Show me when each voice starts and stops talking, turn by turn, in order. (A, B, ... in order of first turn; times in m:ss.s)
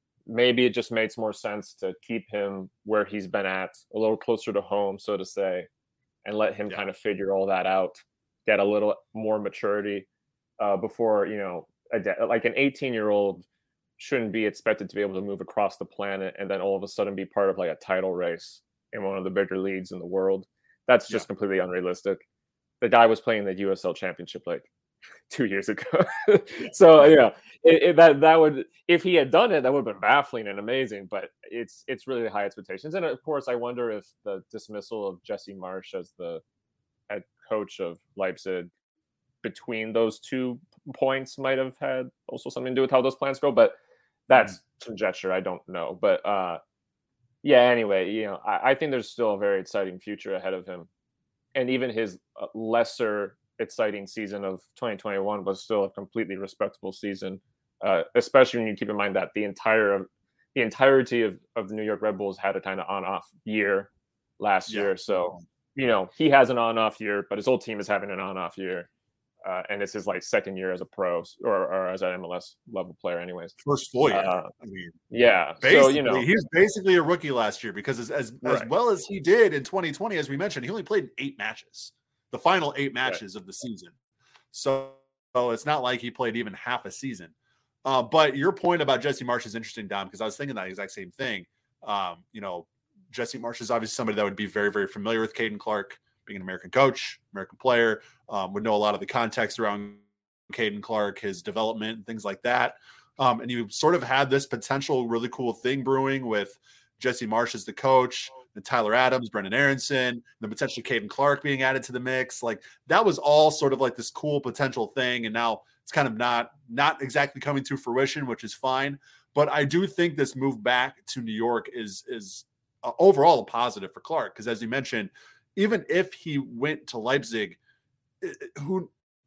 0:00.3-0:05.7 A
0:06.2-0:10.1 A
0:10.6-0:13.5 A
0:14.0-0:22.2 A
0:22.8-0:24.7 A
0:25.3-0:36.4 A
0:26.6-0:27.1 B
0:37.1-0:38.7 A
0:39.4-0:43.8 A
0:44.3-0:46.6 A
0:47.4-0:50.9 A
0:51.6-1:08.9 A
1:04.7-1:05.4 B
1:09.4-1:13.6 A
1:13.6-1:15.0 B
1:14.1-1:14.5 A
1:15.1-1:16.3 A
1:15.6-1:23.9 B
1:24.5-1:27.3 B
1:27.8-2:07.6 B
2:08.2-2:08.9 B